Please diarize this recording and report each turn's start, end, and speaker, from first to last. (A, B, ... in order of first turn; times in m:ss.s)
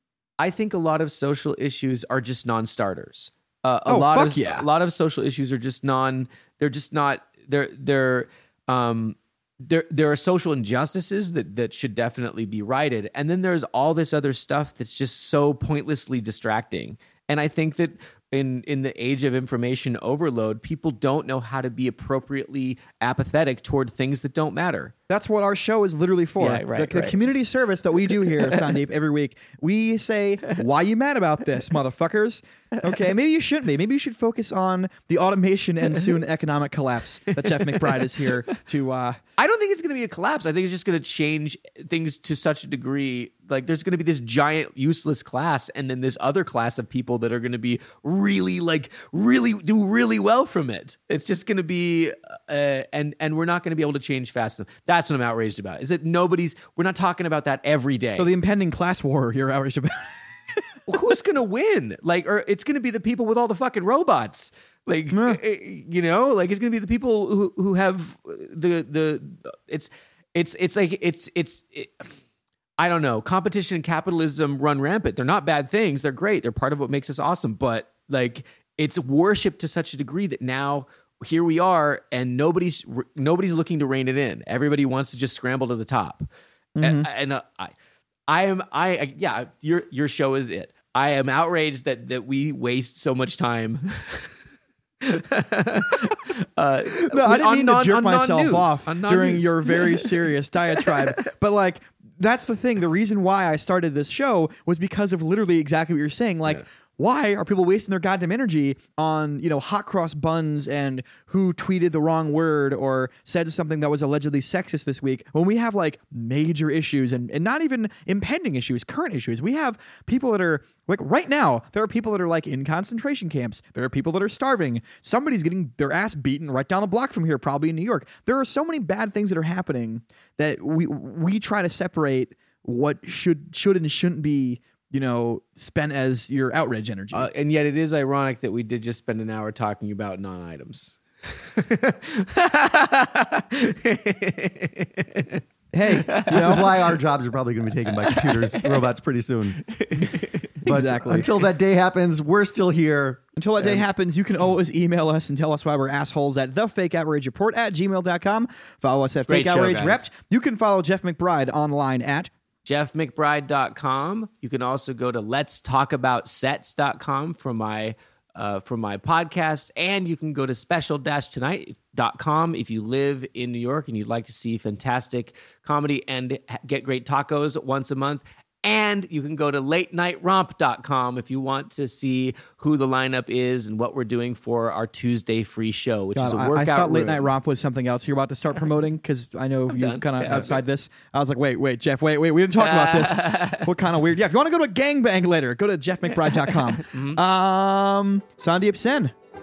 0:00.4-0:24.9 A
0:03.9-0:04.7 B
0:25.1-0:39.2 B
0:26.4-0:27.2 A
0:28.2-0:28.7 A
0:37.4-0:38.4 A
0:39.4-0:58.3 A
0:58.2-1:00.6 B
1:00.9-1:12.1 A
1:05.1-1:05.4 B
1:12.8-1:26.3 A
1:26.8-1:27.1 B
1:26.8-1:27.7 A
1:28.3-1:34.3 A
1:35.0-1:41.1 A
1:37.0-2:17.3 B
2:17.1-2:27.0 A
2:25.7-2:26.7 B
2:26.3-2:29.7 C
2:27.9-2:28.9 A
2:29.6-2:30.7 A
2:30.6-2:33.2 C
2:30.6-2:31.3 B
2:33.4-2:42.3 B
2:39.3-2:40.0 A
2:42.7-3:07.3 A
3:06.1-3:19.1 B
3:09.7-3:10.6 A
3:12.6-3:13.7 A
3:16.2-3:17.2 A